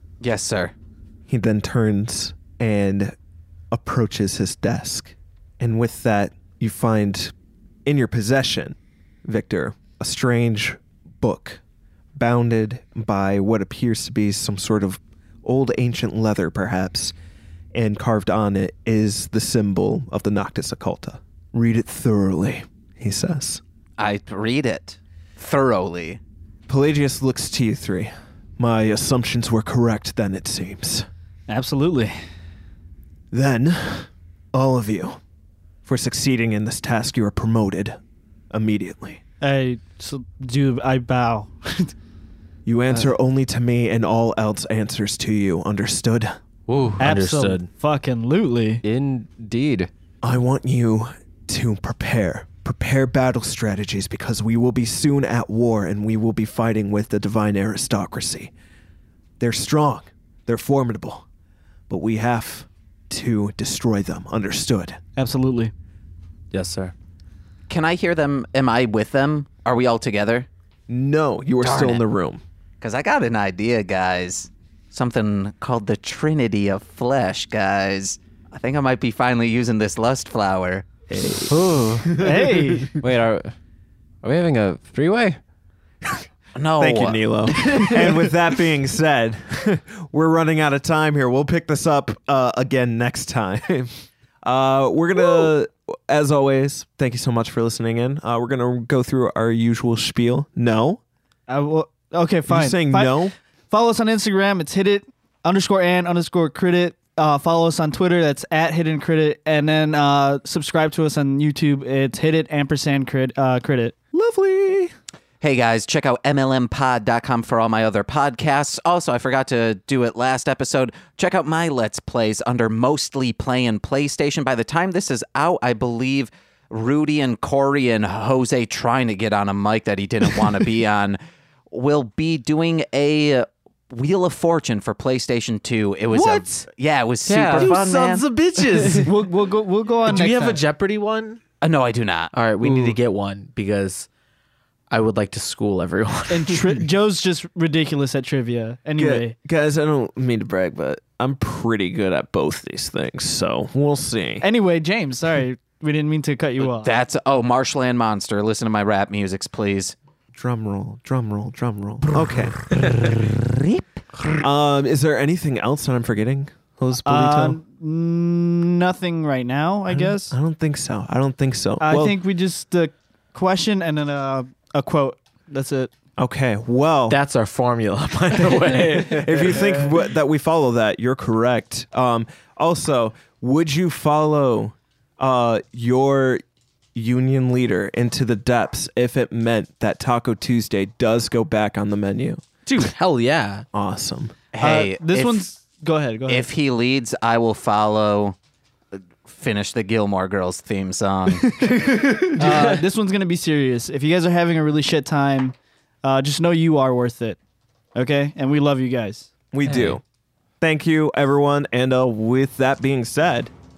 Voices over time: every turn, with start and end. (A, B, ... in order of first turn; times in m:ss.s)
0:00.2-0:00.7 A
0:01.3-0:03.1 B
0:03.7-0:07.3 B
0:07.8-0:11.6 B
0:12.2-0:17.1 B
0:17.7-0:23.6 B
0:24.0-0:26.2 A
0:26.7-0:31.1 B
0:31.5-0:32.1 C
0:33.3-0:35.2 B
0:35.9-0:38.0 B
0:38.5-0:39.2 B
0:39.4-0:41.9 C
0:42.7-0:46.4 B
0:46.7-0:47.2 D
0:47.0-0:47.7 E
0:47.0-0:48.8 C
0:48.8-0:49.9 D
0:50.2-0:58.5 B
0:59.4-1:01.2 B
1:01.9-1:05.0 B
1:05.2-1:05.7 C
1:06.5-1:06.9 E
1:07.7-1:10.5 A
1:10.9-1:12.4 B
1:11.6-1:12.0 A
1:12.8-1:20.9 A
1:21.1-1:22.8 B
1:21.5-1:22.3 D
1:22.1-1:23.0 C
1:22.9-1:23.5 D
1:24.2-1:25.4 D
1:26.6-1:27.2 A
1:26.8-1:33.9 B
1:27.6-1:28.1 C
1:34.4-1:41.0 B
1:41.5-1:54.1 C
1:42.5-1:43.3 B
1:54.1-1:54.9 B
1:55.4-2:18.3 A
2:16.1-2:16.5 E
2:17.3-2:17.8 D
2:17.5-2:19.3 E
2:18.9-2:20.6 C
2:20.0-2:21.4 E
2:21.6-2:22.3 A
2:22.3-2:24.1 E
2:22.6-2:23.0 D
2:24.9-2:26.9 E
2:26.3-2:29.4 C
2:29.0-2:34.5 B
2:34.4-2:36.9 C
2:36.8-2:40.0 A
2:40.3-2:43.1 B
2:42.6-2:44.4 A
2:44.4-2:47.6 B
2:47.1-2:50.4 C
2:49.9-2:52.2 B
2:51.8-2:55.9 C
2:56.2-2:57.2 B
2:57.1-2:59.7 E
2:58.8-3:06.4 B
3:07.0-3:12.4 B
3:12.7-3:13.7 E
3:13.7-3:14.4 B
3:14.5-3:15.5 A
3:14.6-3:16.5 C
3:16.3-3:18.4 A
3:18.9-3:21.5 A
3:21.4-3:27.4 C
3:22.4-3:22.8 E
3:28.0-3:29.3 C
3:29.5-3:30.0 B
3:30.6-3:33.5 B